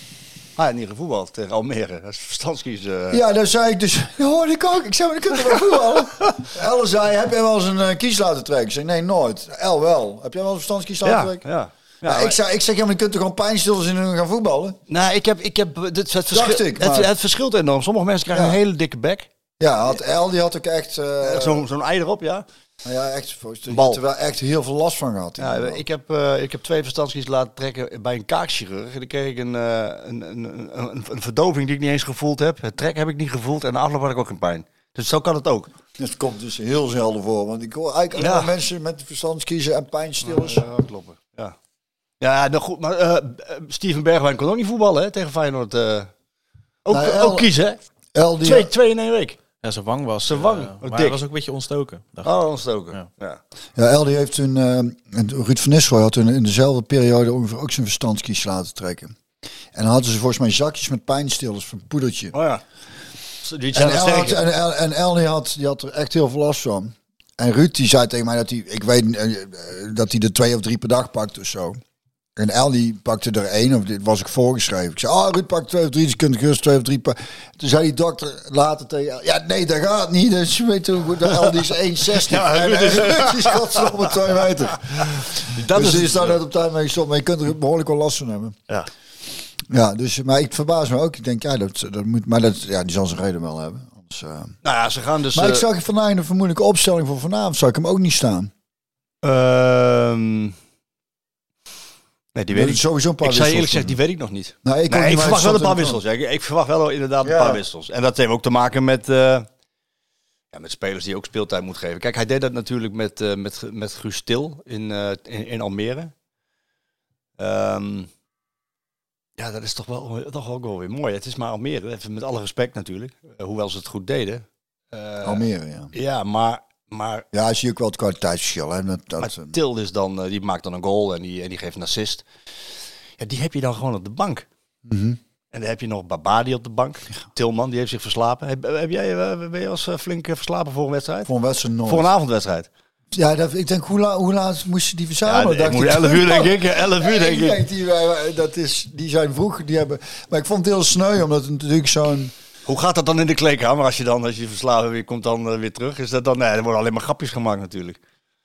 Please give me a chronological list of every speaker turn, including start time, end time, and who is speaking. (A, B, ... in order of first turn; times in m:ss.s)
0:00.6-0:03.2 A
0:03.1-0:11.4 B
0:11.0-0:12.4 A
0:12.0-0:14.8 B
0:14.9-0:19.3 A
0:16.3-0:17.1 B
0:18.3-0:18.6 B
0:19.6-0:21.6 B
0:21.2-0:22.4 A
0:22.8-0:25.8 B
0:23.7-0:24.0 A
0:25.4-0:35.7 A
0:36.0-0:40.7 B
0:38.2-0:38.5 A
0:40.2-0:41.6 A
0:42.2-0:46.1 A
0:46.8-0:47.8 A
0:46.9-0:47.5 B
0:48.1-0:48.7 B
0:48.4-0:49.4 A
0:49.6-0:52.3 C
0:50.3-0:51.2 A
0:52.2-0:53.4 A
0:53.8-0:59.2 B
0:59.7-1:02.4 B
1:02.3-1:02.6 A
1:03.4-1:04.4 A
1:03.7-1:11.8 B
1:12.4-1:28.6 B
1:22.1-1:23.9 A
1:25.0-1:26.4 A
1:29.7-1:34.6 B
1:34.6-1:35.6 A
1:35.3-1:38.5 B
1:39.2-1:40.6 A
1:42.4-1:49.5 A
1:42.5-1:44.0 B
1:44.6-1:46.0 B
1:47.2-1:47.6 B
1:50.5-1:56.1 A
1:57.4-1:58.1 A
1:59.4-2:07.3 A
2:05.2-2:05.9 B
2:07.3-2:09.6 B
2:09.2-2:12.3 A
2:13.2-2:14.5 A
2:14.9-2:15.2 B
2:15.5-2:21.3 A
2:21.3-2:22.1 B
2:21.9-2:22.7 A
2:23.1-2:32.3 B
2:25.2-2:27.6 A
2:32.7-2:38.0 A